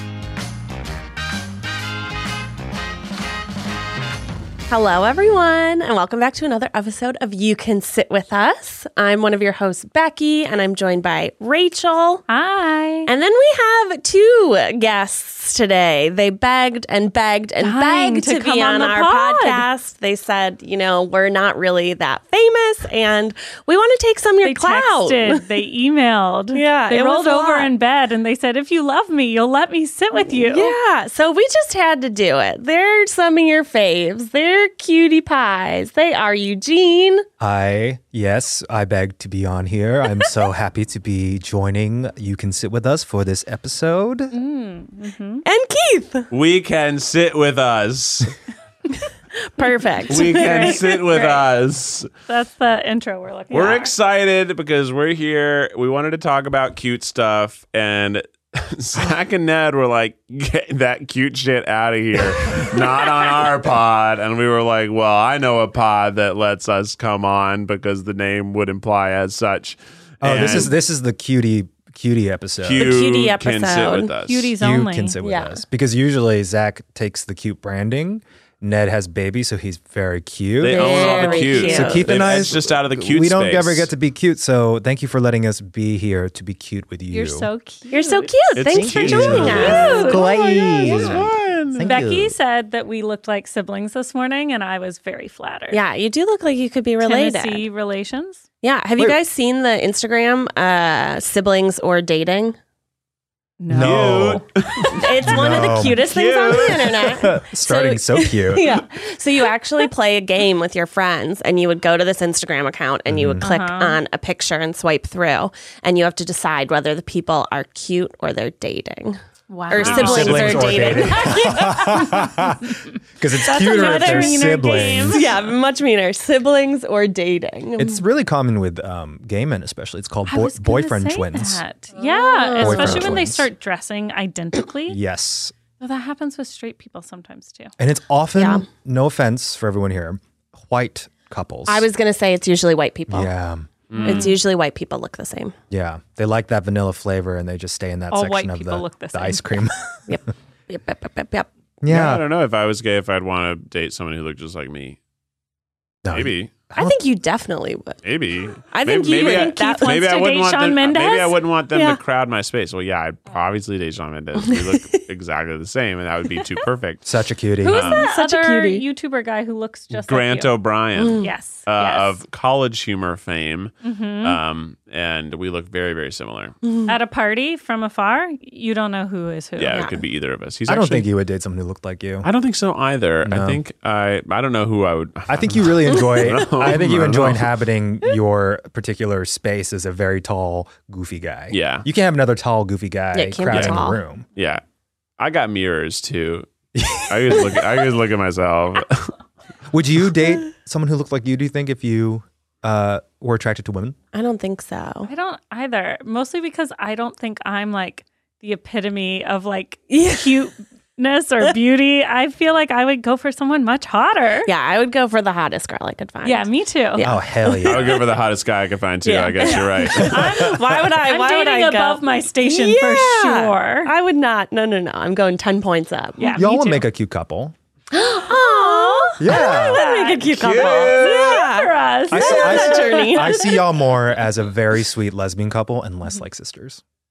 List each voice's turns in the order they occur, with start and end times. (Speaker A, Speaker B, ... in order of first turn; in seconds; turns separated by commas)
Speaker A: 4.7-12.2, Speaker B: 12.3-13.1, Speaker A: 13.1-25.4, Speaker B: 17.6-19.6, Speaker B: 24.4-30.7, Speaker A: 26.5-27.7, Speaker A: 30.3-37.2, Speaker C: 37.4-44.3, Speaker B: 44.3-45.4, Speaker A: 45.4-46.3, Speaker D: 46.3-48.3, Speaker A: 49.3-51.2, Speaker B: 50.1-51.4, Speaker D: 50.1-52.1, Speaker B: 52.3-53.9, Speaker D: 53.5-70.7, Speaker C: 70.2-73.0, Speaker D: 72.6-74.5, Speaker A: 72.8-74.1, Speaker B: 74.2-75.2, Speaker C: 74.6-87.5, Speaker A: 75.2-75.6, Speaker D: 80.6-83.9, Speaker A: 80.7-82.1, Speaker B: 81.4-81.9, Speaker B: 87.1-88.5, Speaker A: 87.9-91.2, Speaker D: 88.6-90.3, Speaker C: 88.6-92.4, Speaker B: 89.1-91.1, Speaker D: 90.8-92.1, Speaker B: 91.8-95.8, Speaker A: 95.7-97.6, Speaker B: 97.0-98.4, Speaker A: 98.6-102.6, Speaker B: 103.6-104.5, Speaker C: 103.7-104.4, Speaker D: 103.7-107.2, Speaker A: 104.9-121.8, Speaker C: 105.1-106.0, Speaker C: 106.9-108.7, Speaker C: 113.1-113.5, Speaker B: 113.4-114.0, Speaker B: 119.5-125.3, Speaker D: 119.8-120.9, Speaker C: 119.9-125.3, Speaker A: 123.7-128.0, Speaker C: 127.8-131.6, Speaker B: 130.3-135.0, Speaker A: 131.9-133.2, Speaker C: 132.6-133.5, Speaker C: 134.9-135.5, Speaker B: 135.8-137.7, Speaker C: 137.8-141.9, Speaker A: 138.3-138.7, Speaker A: 141.7-143.3, Speaker C: 143.1-143.7, Speaker D: 143.9-144.3, Speaker B: 144.0-144.4, Speaker A: 144.0-145.5, Speaker C: 145.7-149.9, Speaker B: 148.1-149.7, Speaker A: 150.1-151.5, Speaker C: 151.8-152.2, Speaker D: 151.8-155.0, Speaker C: 156.0-157.0, Speaker D: 156.1-156.5, Speaker A: 156.8-158.0, Speaker D: 158.0-167.1, Speaker A: 158.7-160.0, Speaker B: 159.3-161.4, Speaker A: 161.7-162.0, Speaker A: 164.4-165.0, Speaker C: 167.0-167.9, Speaker B: 167.6-170.5, Speaker D: 167.6-168.0, Speaker A: 167.8-168.8, Speaker D: 169.9-176.6, Speaker A: 171.0-171.3, Speaker B: 171.2-172.2, Speaker B: 173.8-174.4, Speaker A: 176.6-176.9, Speaker B: 176.9-179.9, Speaker D: 179.6-181.1, Speaker A: 179.7-180.0, Speaker C: 180.7-182.3, Speaker D: 182.2-187.5, Speaker C: 183.2-183.6, Speaker C: 185.3-194.2, Speaker A: 185.9-186.4, Speaker D: 191.5-191.8, Speaker A: 193.1-194.0, Speaker D: 193.5-193.8, Speaker D: 194.3-194.6, Speaker D: 195.2-196.5, Speaker C: 196.7-197.5, Speaker D: 197.0-199.2, Speaker C: 199.7-203.9, Speaker A: 204.1-205.1, Speaker B: 205.1-214.5, Speaker A: 209.9-210.5, Speaker A: 214.4-218.0, Speaker B: 216.2-217.0, Speaker C: 217.0-218.0, Speaker D: 217.6-220.3, Speaker A: 219.0-226.8, Speaker B: 219.4-223.9, Speaker C: 220.0-220.3, Speaker B: 226.2-226.5, Speaker C: 226.3-227.5, Speaker A: 227.9-233.5, Speaker B: 228.2-233.5, Speaker C: 229.2-229.8, Speaker D: 230.3-231.5, Speaker C: 232.1-236.8, Speaker D: 232.1-233.0